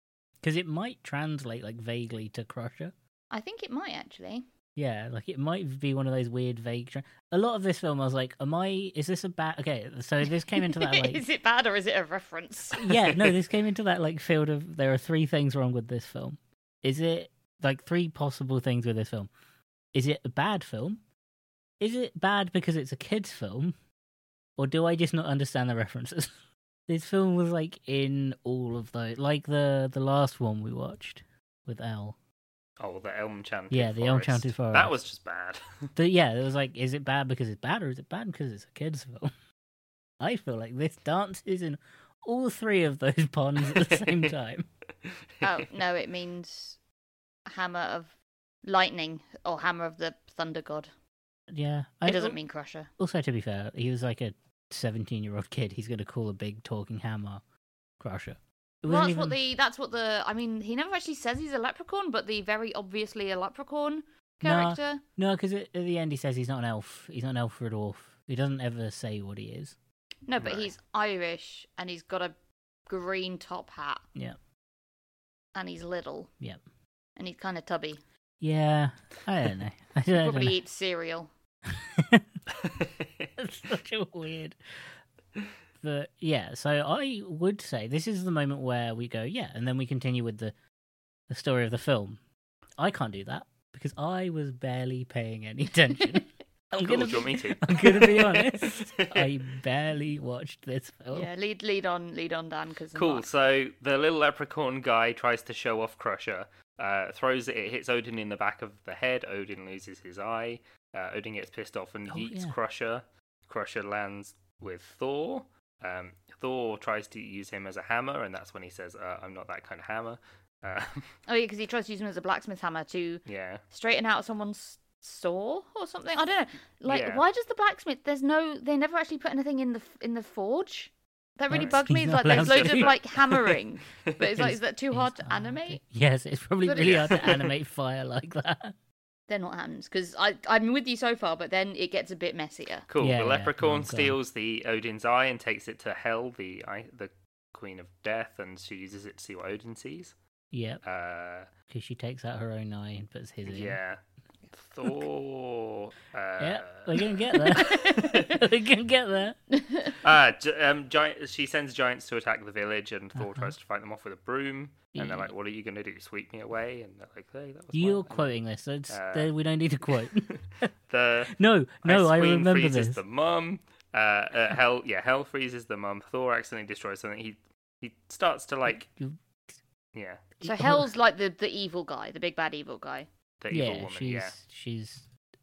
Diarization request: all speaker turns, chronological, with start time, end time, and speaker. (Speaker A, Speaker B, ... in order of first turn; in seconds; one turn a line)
Speaker A: 0.4-2.9
Speaker B: 3.3-4.4
Speaker A: 4.8-11.2
Speaker B: 10.5-13.0
Speaker A: 12.8-19.3
Speaker A: 19.9-21.0
Speaker A: 21.8-23.8
Speaker A: 24.6-26.3
Speaker A: 26.9-32.1
Speaker C: 32.8-35.9
Speaker A: 33.7-34.9
Speaker A: 36.0-39.3
Speaker A: 40.2-44.7
Speaker C: 43.8-44.1
Speaker C: 45.0-45.4
Speaker B: 45.4-46.8
Speaker B: 47.5-50.9
Speaker A: 51.5-52.4
Speaker B: 52.0-52.9
Speaker A: 53.0-57.4
Speaker A: 58.0-59.4
Speaker B: 58.8-65.0
Speaker A: 64.4-69.8
Speaker B: 70.2-72.3
Speaker C: 70.4-70.7
Speaker B: 72.9-74.0
Speaker B: 75.5-76.3
Speaker B: 77.2-78.0
Speaker A: 78.4-80.6
Speaker B: 80.2-81.3
Speaker A: 81.7-82.3
Speaker C: 82.6-83.3
Speaker A: 83.4-84.6
Speaker A: 85.8-90.5
Speaker A: 91.3-92.2
Speaker A: 92.8-101.3
Speaker C: 96.8-99.3
Speaker B: 101.1-103.2
Speaker C: 102.9-121.1
Speaker A: 112.1-112.5
Speaker B: 121.3-135.8
Speaker C: 123.2-123.6
Speaker C: 126.9-127.2
Speaker A: 131.5-133.0
Speaker C: 131.5-134.3
Speaker A: 134.4-138.7
Speaker B: 136.6-137.1
Speaker C: 136.8-137.5
Speaker B: 139.3-142.9
Speaker C: 142.9-150.1
Speaker A: 143.0-144.2
Speaker A: 150.5-150.8
Speaker C: 150.8-151.5
Speaker A: 151.7-153.8
Speaker C: 153.4-154.0
Speaker C: 154.5-158.4
Speaker A: 156.4-159.4
Speaker B: 159.5-159.9
Speaker C: 160.0-168.3
Speaker A: 163.2-163.5
Speaker A: 164.9-165.3
Speaker A: 167.7-170.7
Speaker C: 168.9-169.3
Speaker C: 170.9-178.9
Speaker A: 171.3-173.0
Speaker A: 178.7-179.5
Speaker C: 179.9-180.2
Speaker A: 180.4-180.9
Speaker B: 180.4-183.1
Speaker C: 183.4-184.4
Speaker A: 183.5-185.1